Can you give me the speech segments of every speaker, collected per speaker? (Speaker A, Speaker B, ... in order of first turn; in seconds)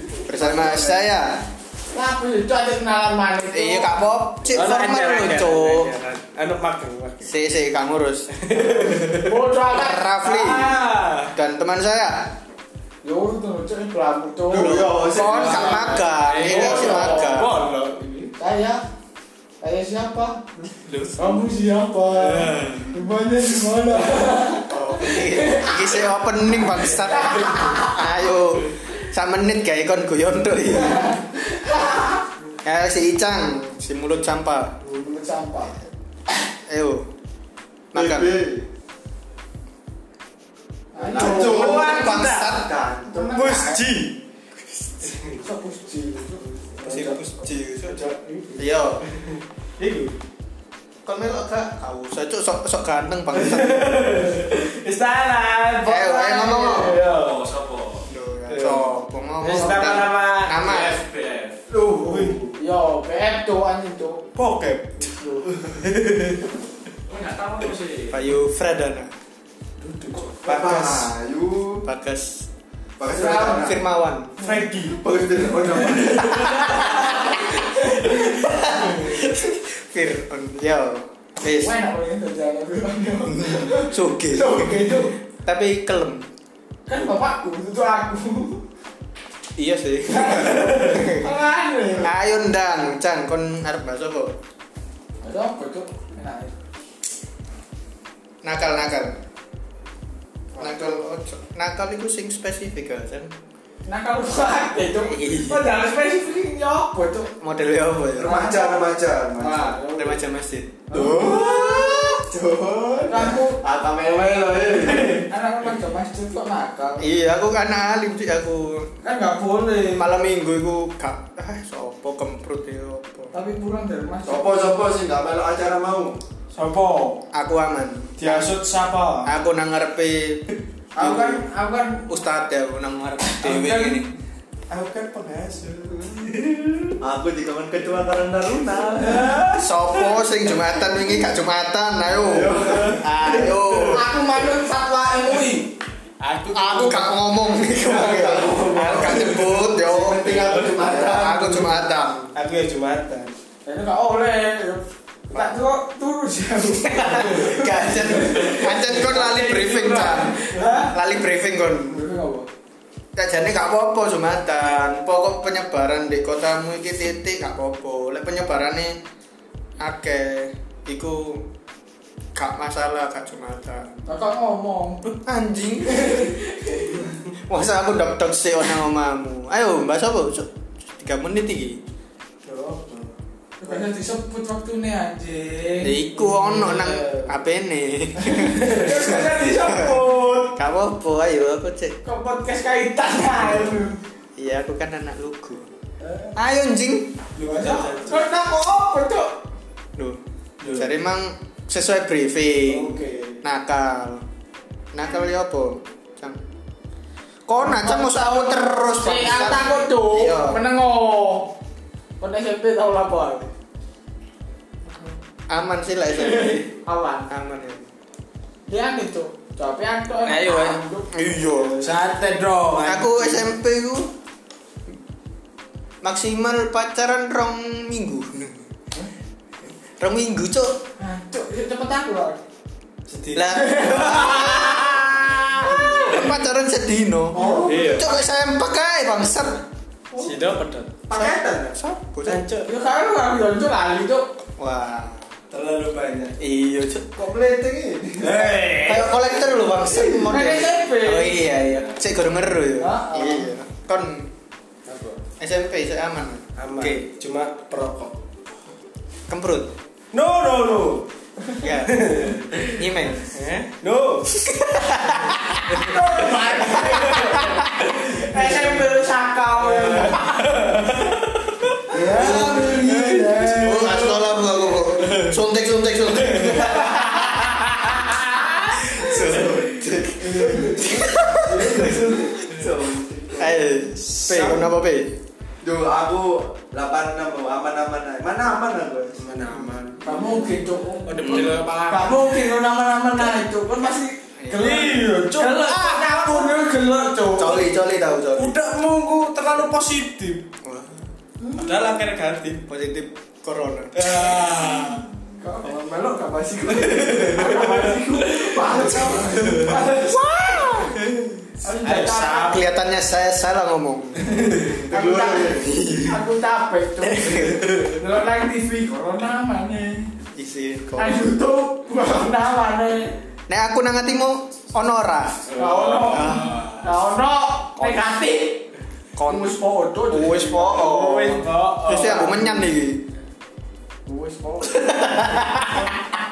Speaker A: 0.2-1.4, 3.5-5.9, 7.2-9.0, 9.7-12.3, 14.6-17.5, 24.7-31.2, 32.6-34.8, 36.7-37.1, 37.9-38.4, 41.1-42.7, 46.8-49.0, 51.0-54.0, 55.8-57.0, 58.0-61.0, 68.1-69.1, 70.5-71.0, 71.8-72.5, 73.3-74.4, 76.2-81.7, 83.3-86.3, 89.5-91.3, 92.0-94.4, 98.4-99.2, 100.6-103.3, 105.0-105.7, 107.4-108.4, 109.5-112.2, 117.0-118.9, 119.9-123.3, 127.3-128.5, 129.2-130.4, 131.0-131.4, 132.1-134.1, 139.5-144.1, 146.5-152.3, 156.8-162.1, 163.1-169.0, 169.8-171.5, 172.3-174.0, 175.0-176.4, 177.3-181.8, 185.8-192.0, 193.3-193.7, 194.3-195.7, 196.3-197.2, 199.9-200.2, 200.7-204.2, 204.9-206.4, 207.5-210.6, 215.5-216.7, 217.3-217.8, 221.1-221.9, 222.8-224.1, 226.0-228.6, 230.0-230.8, 233.3-239.6, 241.2-242.4, 244.6-245.2, 246.4-247.1, 248.6-254.3, 255.4-257.1, 259.3-259.7, 261.6-262.1, 262.7-263.7, 264.5-265.9, 266.7-267.6, 272.1-277.2, 278.7-282.1, 283.4-285.2, 294.4-294.8, 297.4-298.5, 300.6-301.1, 302.6-304.9, 312.3-314.8, 315.6-316.2, 317.0-317.9, 320.3-321.3, 323.5-325.4, 326.1-326.5, 329.1-329.6, 330.1-333.1, 334.6-335.9
Speaker B: 0.3-1.0, 14.5-15.8, 37.9-38.7, 41.0-43.3, 61.7-62.5, 70.4-71.8, 73.0-73.8, 74.9-77.0, 108.2-109.7, 110.9-115.3, 124.2-126.2, 135.6-136.1, 137.0-139.5, 142.2-143.5, 148.4-151.7, 241.1-241.8, 245.5-246.3, 247.1-248.6, 249.7-250.3, 271.9-273.8, 279.0-283.6, 285.6-289.3, 314.5-315.8
Speaker C: 1.9-3.9, 9.1-10.3, 13.0-17.5, 18.4-18.8, 19.6-20.5, 21.1-26.0, 27.0-27.9, 30.8-32.2, 34.8-35.7, 40.9-42.1, 43.1-43.8, 45.4-47.0, 56.0-56.9, 62.5-64.2, 65.0-65.4, 73.1-73.6, 81.6-85.1, 86.9-88.6, 90.1-92.1, 95.2-96.5, 103.8-107.3, 108.2-110.2, 113.1-113.6, 115.2-117.0, 119.0-120.0, 123.3-124.5, 131.0-132.1, 133.2-133.7, 143.9-145.8, 153.7-160.9, 161.9-162.5, 174.1-175.0, 175.8-177.0, 183.6-185.9, 188.3-190.5, 192.0-194.0, 197.4-199.4, 207.6-208.2, 209.0-211.5, 212.2-213.5, 216.4-217.3, 218.7-221.1, 231.0-232.4, 233.5-236.1, 237.3-237.9, 242.6-244.3, 250.3-251.5, 252.8-253.5, 254.9-255.2, 265.7-270.5, 290.0-297.7, 301.4-301.7, 305.4-310.9, 311.6-312.6, 314.9-320.1, 321.0-323.1, 325.6-328.6, 329.2-330.9, 334.1-335.3
Speaker D: 4.5-7.2, 8.3-9.4, 10.2-11.3, 15.2-18.3, 20.8-21.5, 22.1-23.0, 41.5-42.5, 43.3-44.2, 45.1-45.4, 46.8-47.2, 47.8-50.1, 53.3-57.5, 58.5-58.9, 59.4-60.9, 62.0-62.4, 64.3-66.4, 69.8-71.0, 74.4-75.0, 126.5-127.2, 128.2-129.3, 134.7-136.9, 139.1-139.6, 142.6-143.0, 146.2-149.7, 152.3-153.3, 159.0-160.8, 182.5-183.1, 186.2-187.3, 197.3-198.2, 200.6-200.9, 202.9-203.3, 220.2-220.8, 221.5-223.5, 233.1-236.3, 237.5-238.1, 240.2-240.9, 242.2-242.7, 248.2-249.2, 256.6-258.2, 260.1-261.1, 261.7-262.8, 263.7-264.8, 265.8-266.0, 266.7-268.8, 269.6-274.2, 275.0-275.3, 276.3-278.0, 284.2-284.7, 289.2-290.3, 291.1-292.4, 294.6-296.6, 298.3-300.4, 301.5-302.6, 303.9-305.0, 306.8-310.1, 311.8-312.6, 325.4-326.9, 330.2-332.6
Speaker E: 57.0-58.0, 60.5-61.6, 67.1-68.2